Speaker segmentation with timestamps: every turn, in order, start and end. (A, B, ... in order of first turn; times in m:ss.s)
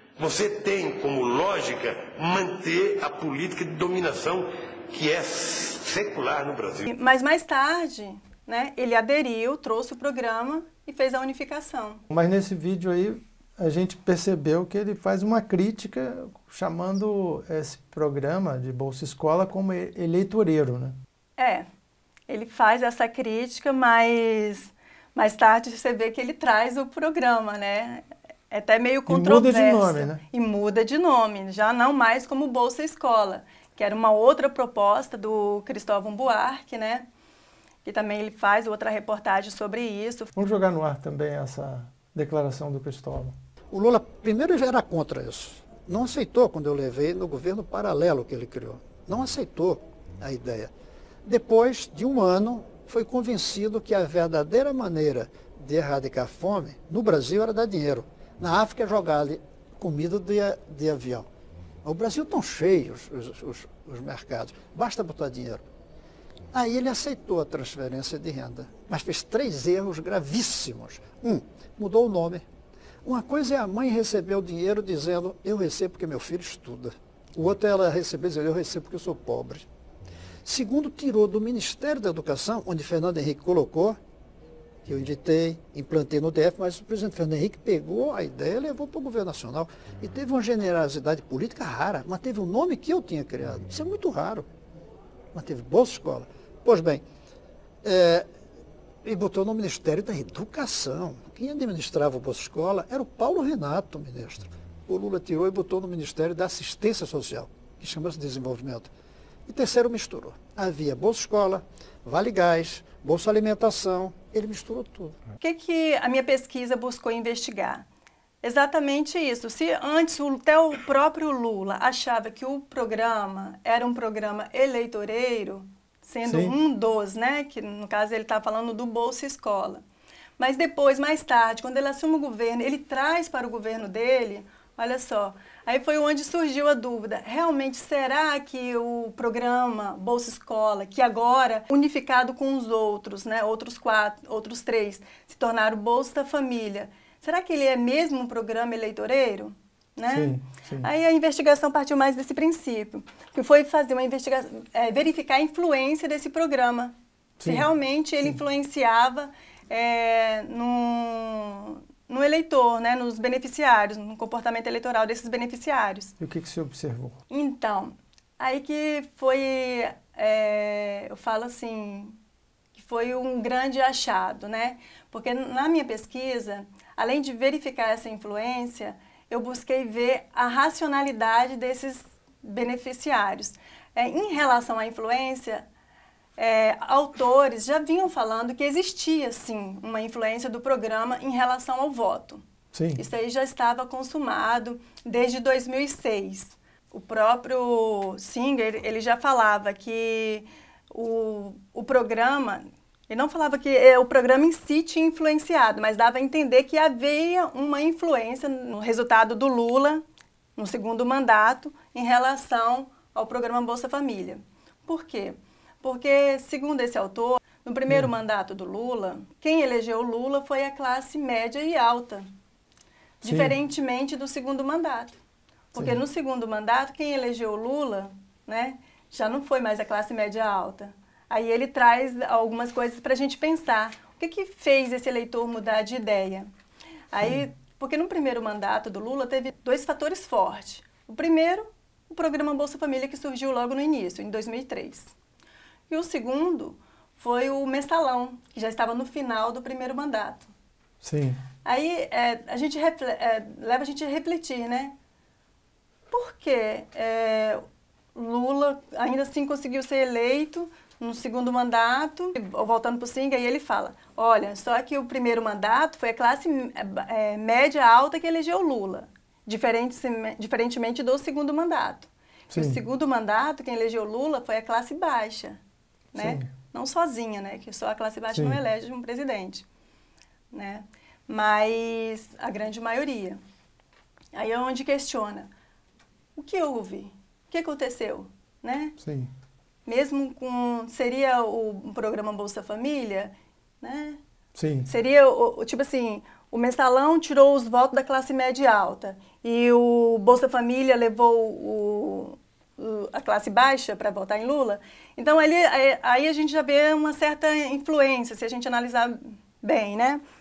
0:00.2-0:06.9 A
0:06.9-0:12.0 B
0:12.1-0:21.0 C
0:21.4-0:21.7 B
0:22.3-0:37.1 B
0:29.1-0:30.2 C
0:37.8-0:40.3 B
0:40.4-0:43.4 C
0:43.7-0:50.7 D
0:51.2-1:01.3 D
1:01.8-1:05.6 D
1:06.5-1:12.5 D
1:13.0-1:19.7 D
1:20.4-1:24.0 D
1:24.8-1:34.5 D
1:35.3-1:37.0 D
1:37.8-1:38.2 D
1:39.0-1:48.9 D
1:49.5-1:55.2 D
1:55.4-1:57.8 B
1:58.4-2:09.8 B
2:06.2-2:06.6 C
2:10.4-2:46.2 B
2:30.1-2:30.9 C
2:37.4-2:37.7 C
2:46.2-2:47.2 C
2:47.3-2:52.2 B
2:52.7-3:05.6 B
3:06.4-3:12.4 B
3:12.7-3:13.0 C
3:13.0-3:30.0 B
3:30.6-3:42.2 B
3:43.2-3:45.2 B
3:43.2-3:43.6 C
3:45.7-3:56.5 B
3:57.1-4:05.1 B
4:05.9-4:10.5 B
4:11.0-4:11.4 C
4:11.6-4:15.0 B
4:16.1-4:17.6 B
4:18.1-4:35.6 B
4:32.5-4:32.8 C
4:36.1-4:39.6 B
4:36.2-4:36.5 C
4:38.3-4:38.6 C
4:40.5-4:43.4 B
4:44.3-4:45.5 B
4:46.4-4:49.0 B
4:49.0-4:49.3 C
4:49.9-4:54.2 B
4:54.6-4:54.9 C
4:54.9-5:10.2 B